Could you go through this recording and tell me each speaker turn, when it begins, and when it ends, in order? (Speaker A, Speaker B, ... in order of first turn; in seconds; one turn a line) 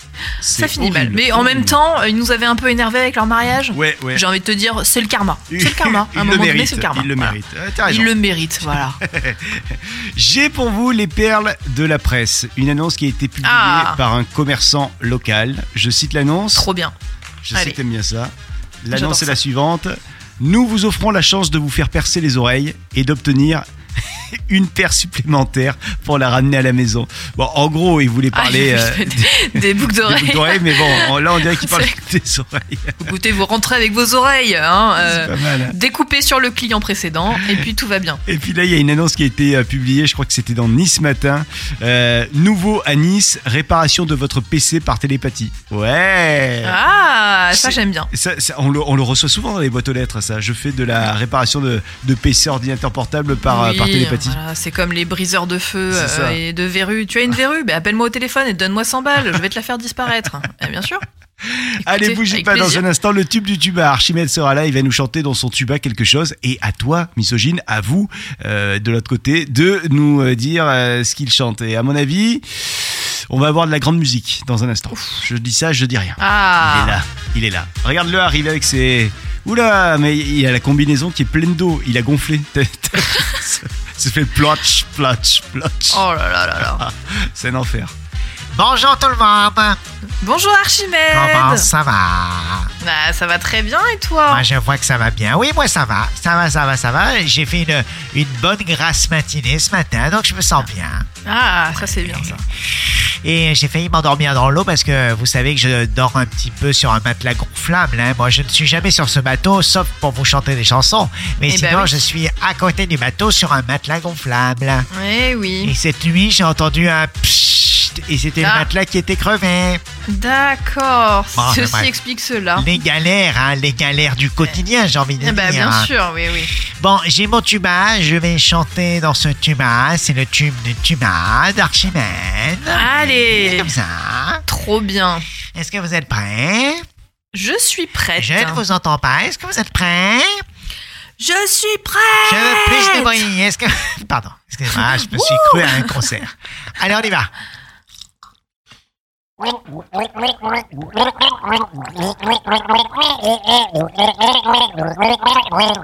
Speaker A: 0.4-1.8
Speaker B: 0.5-7.3
Speaker A: 3.7-4.2
Speaker A: 5.5-8.1
Speaker B: 7.9-9.0
Speaker A: 8.7-16.7
Speaker B: 13.4-14.0
Speaker B: 16.5-16.9
Speaker A: 17.4-18.3
Speaker A: 18.8-33.0
Speaker B: 18.9-19.4
Speaker B: 28.3-31.9
Speaker B: 33.0-38.2
Speaker A: 35.0-35.7
Speaker A: 38.2-46.8
Speaker B: 46.6-48.1
Speaker A: 47.5-54.4
Speaker B: 53.4-61.0
Speaker A: 55.9-56.4
Speaker A: 61.4-86.0
Speaker B: 61.8-62.8
Speaker B: 76.2-77.0
Speaker B: 85.9-86.8
Speaker A: 86.6-87.9
Speaker C: 88.5-89.8
Speaker B: 90.2-91.7
Speaker C: 91.1-92.7
Speaker B: 92.8-94.5
Speaker C: 94.3-101.0
Speaker B: 101.2-102.4
Speaker C: 102.7-114.9
Speaker B: 111.5-111.9
Speaker B: 114.9-115.7
Speaker C: 115.6-119.8
Speaker B: 118.4-118.7
Speaker B: 120.1-122.7
Speaker C: 121.3-121.9
Speaker C: 122.5-125.9
Speaker B: 125.2-126.5
Speaker C: 126.6-134.4
Speaker B: 132.7-133.7
Speaker B: 134.4-135.2
Speaker C: 135.5-136.8
Speaker B: 137.3-138.6
Speaker C: 138.2-140.4
Speaker B: 141.2-143.2
Speaker C: 142.2-147.3
Speaker B: 144.8-146.0